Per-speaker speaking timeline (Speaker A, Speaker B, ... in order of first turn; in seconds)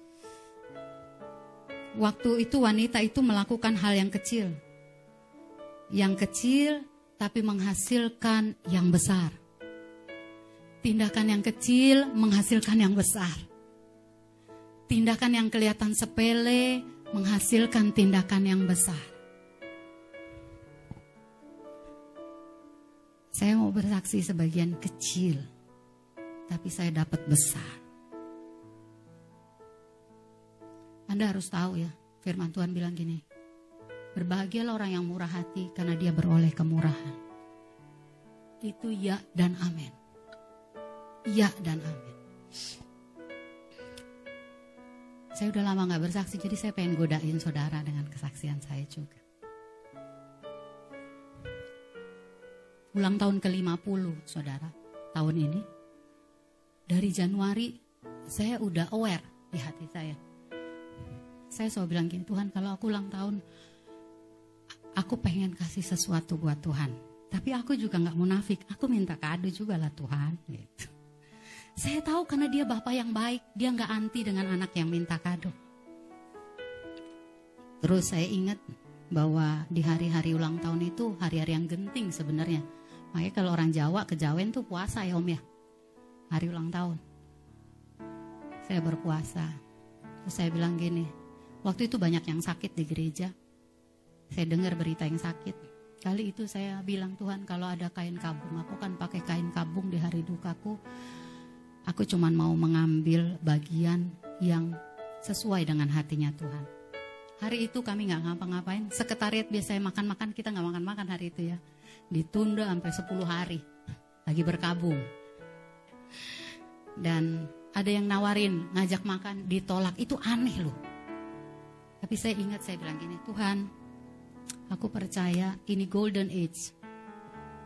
Speaker A: 2.0-4.5, 6.0-9.4, 10.8-13.5, 14.9-19.1, 23.4-25.5, 26.5-27.8, 31.1-33.2, 34.2-37.2, 38.6-40.0, 41.3-42.2, 45.4-49.2, 53.0-55.6, 56.9-57.7, 58.3-60.2, 61.5-63.4, 65.0-70.9, 71.8-75.5, 77.8-78.6, 79.1-85.4, 86.3-87.0, 88.7-89.5, 90.2-91.1, 91.6-93.3, 94.3-100.8, 101.9-104.7, 105.2-106.7, 107.4-111.6, 112.1-113.7, 114.3-115.0, 117.0-120.8, 122.0-123.7, 124.7-126.7